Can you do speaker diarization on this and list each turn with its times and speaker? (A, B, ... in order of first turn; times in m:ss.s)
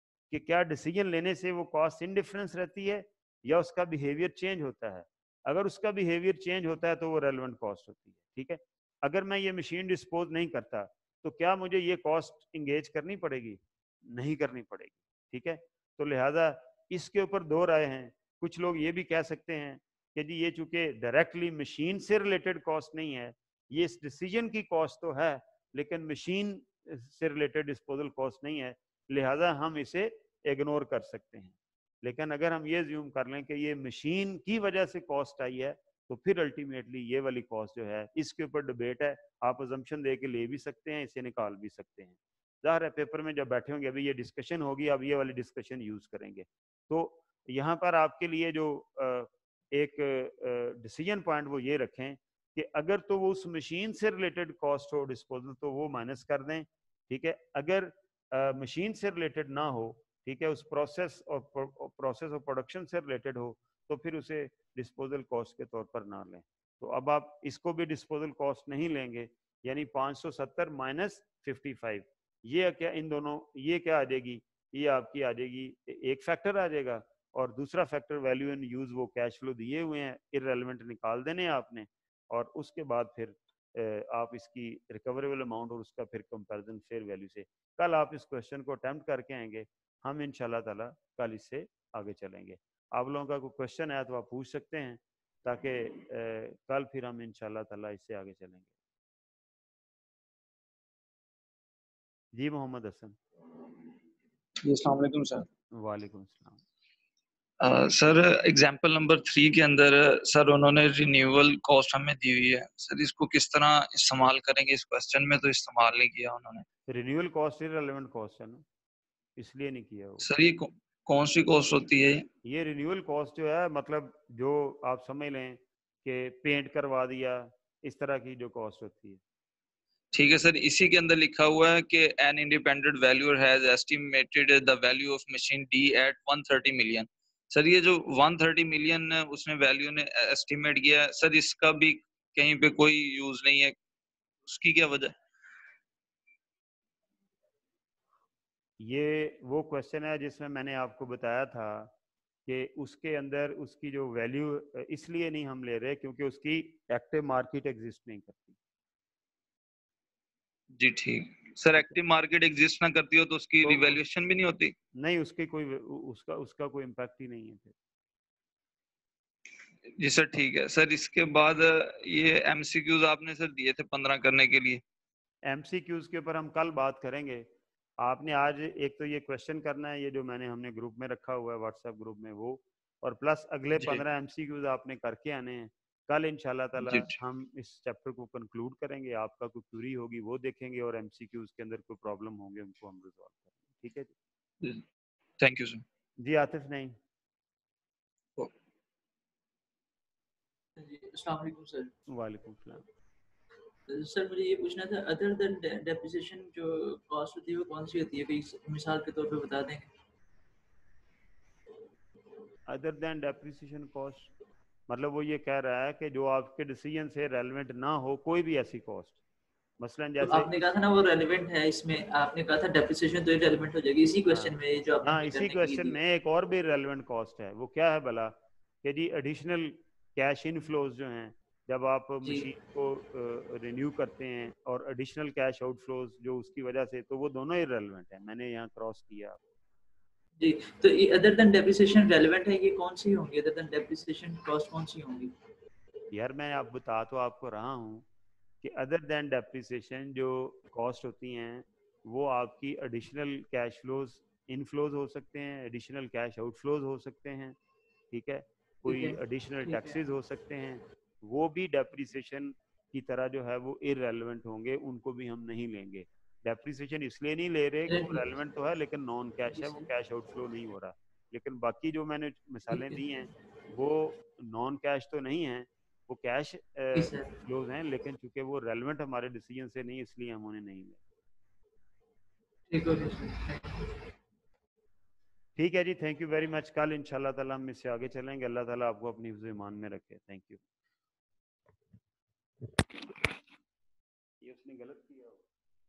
0:00.3-1:38.7 A
1:42.3-1:43.2 A
1:44.6-1:45.5 B
1:45.7-1:46.6 A
1:47.6-1:56.6 B
1:56.9-1:58.6 A
1:59.4-2:00.3 A
2:00.2-2:02.3 B
2:02.4-2:09.2 A
2:10.1-2:23.8 B
2:24.5-2:25.2 B
2:28.8-2:31.9 A
2:32.5-2:38.6 A
2:40.8-2:44.8 B
2:43.7-2:44.0 A
2:45.0-2:47.8 A
2:49.9-2:54.8 B
2:55.4-2:57.5 A
2:58.0-3:14.1 A
3:03.8-3:04.0 B
3:06.8-3:07.2 B
3:15.4-3:15.8 B
3:16.2-3:17.0 A
3:20.8-3:22.0 C
3:22.1-3:22.8 A
3:23.9-3:29.9 C
3:32.7-3:34.3 A
3:34.9-3:39.2 A
3:39.8-3:40.5 A
3:40.2-3:46.0 C
3:44.3-3:59.4 A
4:00.4-4:05.3 C
4:06.1-4:08.1 A
4:08.6-4:17.6 A
4:18.1-4:41.0 A
4:18.9-4:20.0 C
4:27.9-4:28.4 C
4:29.5-4:29.9 C
4:32.7-4:33.1 C
4:37.0-4:37.3 C
4:42.7-4:44.0 C
4:45.6-4:50.6 A
4:54.4-4:55.4 A